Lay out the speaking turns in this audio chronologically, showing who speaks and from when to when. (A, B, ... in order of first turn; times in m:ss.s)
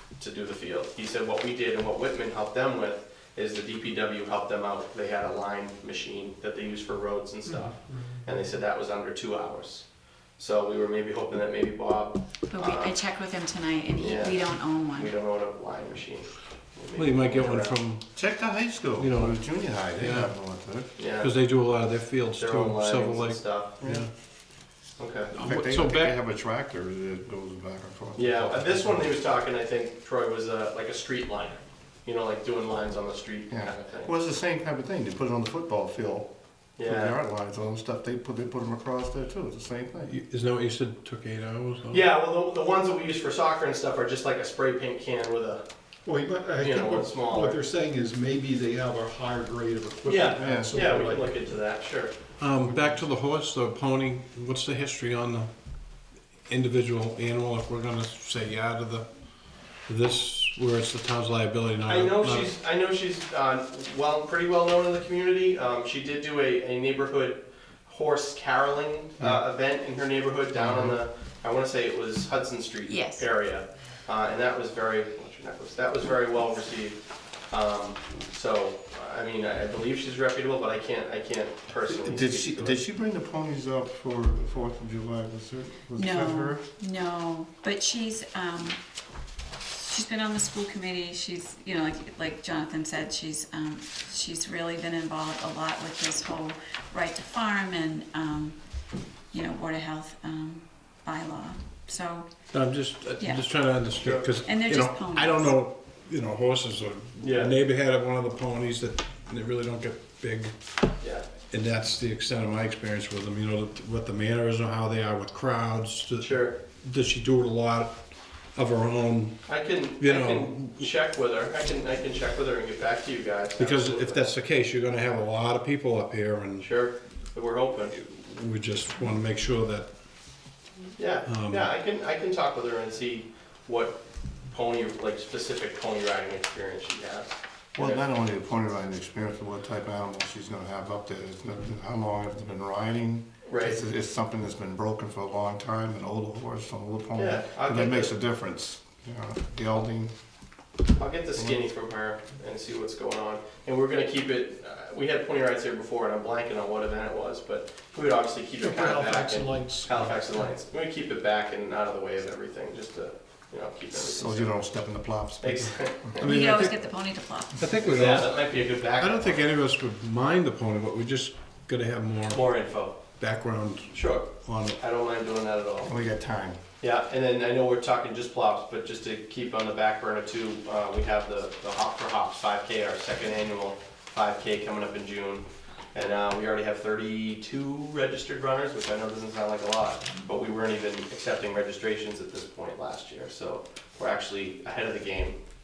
0:00.2-0:09.8 A
0:10.4-0:13.0 A
0:12.5-0:15.1 B
0:14.0-0:17.8 A
0:16.9-0:18.1 C
0:18.1-0:20.9 D
0:19.0-0:19.4 C
0:19.9-0:20.3 C
0:21.0-0:21.3 A
0:21.2-0:24.1 C
0:22.3-0:23.8 A
0:23.8-0:24.1 D
0:25.0-0:25.3 A
0:25.3-0:29.0 D
0:25.3-0:26.2 C
0:28.2-0:34.1 A
0:33.5-0:36.3 D
0:36.8-0:37.1 A
0:36.8-0:40.1 D
0:40.0-0:42.0 C
0:41.9-0:45.6 A
0:46.0-0:51.4 E
0:46.6-0:47.6 A
0:50.0-0:52.1 A
0:50.4-0:50.8 D
0:52.4-0:55.5 C
0:56.5-0:59.1 C
0:59.9-1:02.5 C
1:01.9-1:17.0 A
1:10.6-1:10.9 C
1:12.8-1:13.3 B
1:17.5-1:22.8 A
1:21.8-1:26.6 D
1:25.9-1:28.8 B
1:29.8-1:38.6 B
1:39.3-1:42.3 B
1:42.5-1:50.6 C
1:43.2-1:43.4 B
1:44.0-1:44.3 A
1:44.4-1:45.6 B
1:47.2-1:47.6 A
1:51.0-1:51.3 A
1:51.5-1:57.9 C
1:56.2-1:56.6 A
1:58.5-1:59.4 C
1:59.5-2:04.3 A
2:00.0-2:00.9 C
2:03.6-2:06.6 C
2:06.6-2:07.9 A
2:07.9-2:09.9 C
2:11.0-2:18.0 A
2:11.2-2:11.7 C
2:17.8-2:30.1 D
2:23.4-2:23.8 A
2:27.2-2:28.1 A
2:31.0-2:44.6 A
2:38.6-2:40.2 E
2:43.9-2:46.1 D
2:45.4-2:46.2 A
2:46.2-2:47.7 B
2:46.2-2:46.8 C
2:47.6-2:48.3 C
2:47.8-2:49.5 A
2:49.0-2:52.4 C
2:52.3-2:53.0 A
2:53.1-2:54.8 C
2:53.9-2:55.9 A
2:55.8-2:56.6 D
2:56.8-3:15.4 A